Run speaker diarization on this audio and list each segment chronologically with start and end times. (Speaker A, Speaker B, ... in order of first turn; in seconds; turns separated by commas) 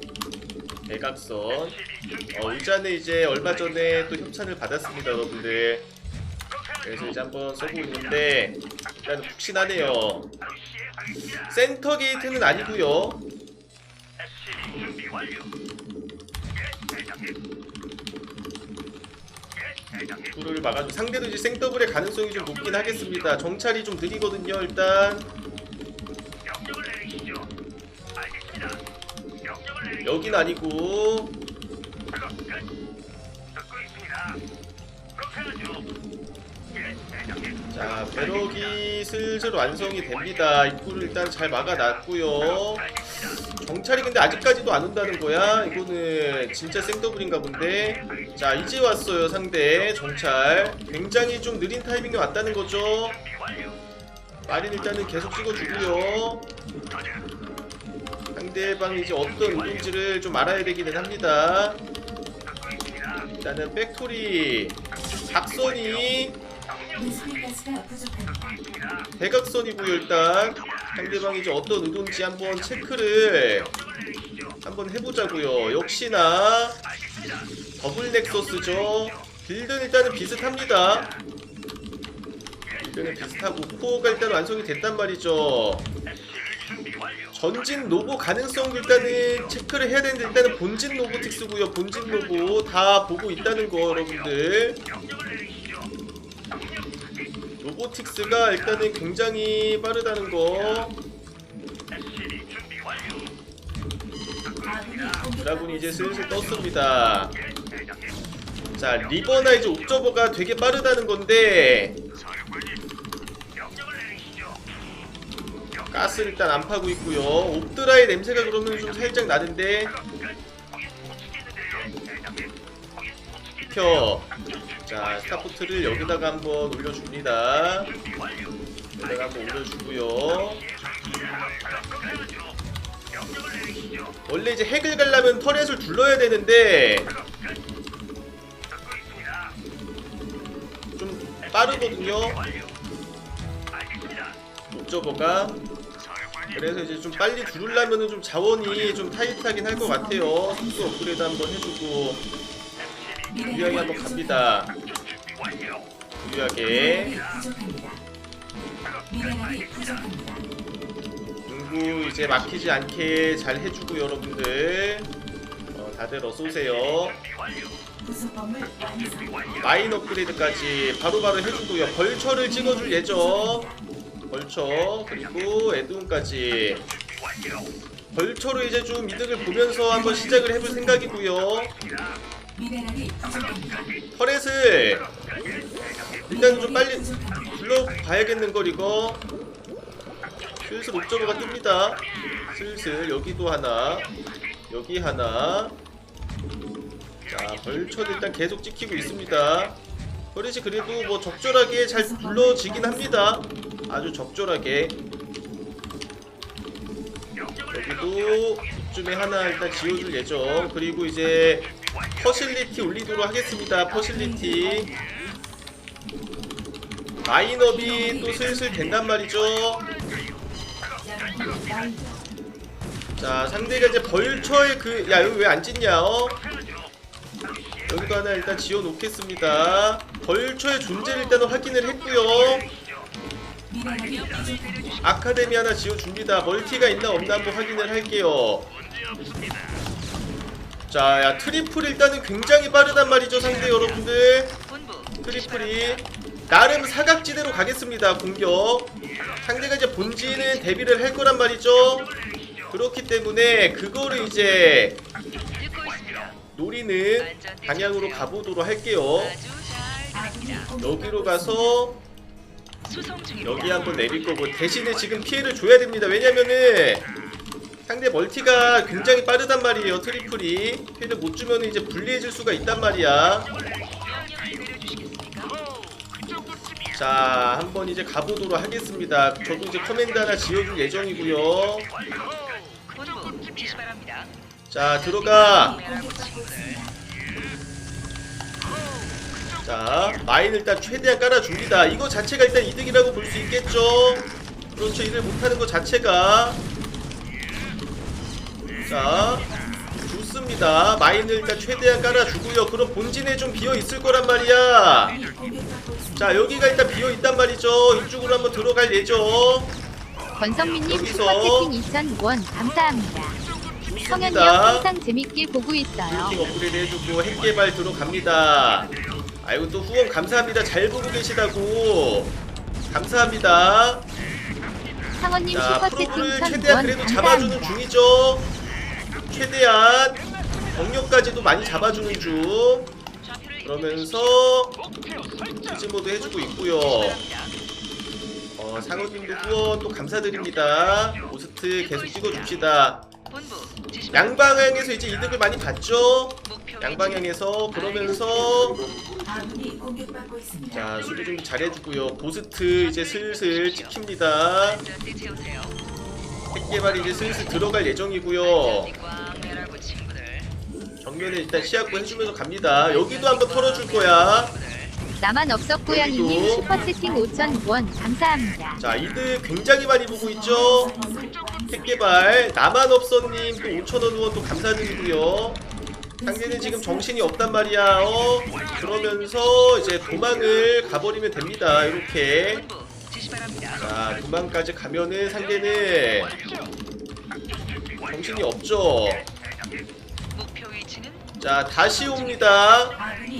Speaker A: 0.9-5.9, Speaker A: 6.8-10.3, Speaker A: 11.4-13.2, Speaker A: 20.3-25.3, Speaker A: 30.0-31.4, Speaker A: 37.7-53.2, Speaker A: 54.5-56.5, Speaker A: 58.3-61.8, Speaker A: 63.4-66.4, Speaker B: 67.0-68.5, Speaker A: 69.2-73.7, Speaker A: 74.6-76.8, Speaker A: 77.8-81.1, Speaker A: 82.8-85.9, Speaker A: 87.3-94.8, Speaker A: 97.6-101.0, Speaker A: 105.4-107.4, Speaker A: 108.8-112.0, Speaker A: 115.9-119.9, Speaker A: 123.6-124.3, Speaker A: 124.8-127.9, Speaker A: 129.0-130.7, Speaker A: 134.3-137.1, Speaker A: 141.0-142.4, Speaker A: 144.7-145.6, Speaker A: 146.5-152.3, Speaker A: 153.4-154.7, Speaker A: 156.2-157.3, Speaker A: 161.5-165.1, Speaker A: 165.7-167.2, Speaker B: 168.6-168.8, Speaker A: 169.6-173.7, Speaker A: 174.3-176.9, Speaker A: 178.1-181.8, Speaker A: 184.1-185.1, Speaker A: 186.3-189.3, Speaker A: 190.6-194.1, Speaker A: 194.7-195.8, Speaker A: 197.3-199.8, Speaker A: 200.3-205.0, Speaker A: 207.7-214.9, Speaker A: 217.2-219.9, Speaker B: 221.4-221.7, Speaker A: 223.2-226.4, Speaker A: 227.8-232.7, Speaker A: 235.0-238.7, Speaker A: 240.9-244.6, Speaker A: 245.2-252.1, Speaker A: 252.7-255.0, Speaker A: 256.5-259.4, Speaker A: 260.7-262.0, Speaker A: 263.4-267.1, Speaker A: 267.9-273.5, Speaker A: 276.9-281.9, Speaker A: 284.7-285.9, Speaker B: 286.2-286.9, Speaker A: 289.6-296.6, Speaker A: 298.8-299.5, Speaker A: 300.0-305.2, Speaker A: 306.1-309.7, Speaker C: 310.4-313.3, Speaker A: 310.9-311.7, Speaker A: 313.8-314.9, Speaker C: 314.1-316.4, Speaker A: 316.1-322.4, Speaker A: 322.9-324.1, Speaker C: 325.2-327.8, Speaker A: 325.5-328.5, Speaker A: 329.3-332.9, Speaker A: 333.6-334.8, Speaker A: 335.6-337.2, Speaker A: 338.5-343.1, Speaker A: 344.1-348.8, Speaker A: 350.7-354.9, Speaker A: 356.5-358.9, Speaker A: 361.0-364.6, Speaker C: 365.2-368.8, Speaker A: 365.9-366.8, Speaker A: 368.8-371.0, Speaker A: 371.6-375.6, Speaker A: 376.2-382.7, Speaker A: 383.8-386.4, Speaker A: 388.0-389.3, Speaker A: 391.4-393.1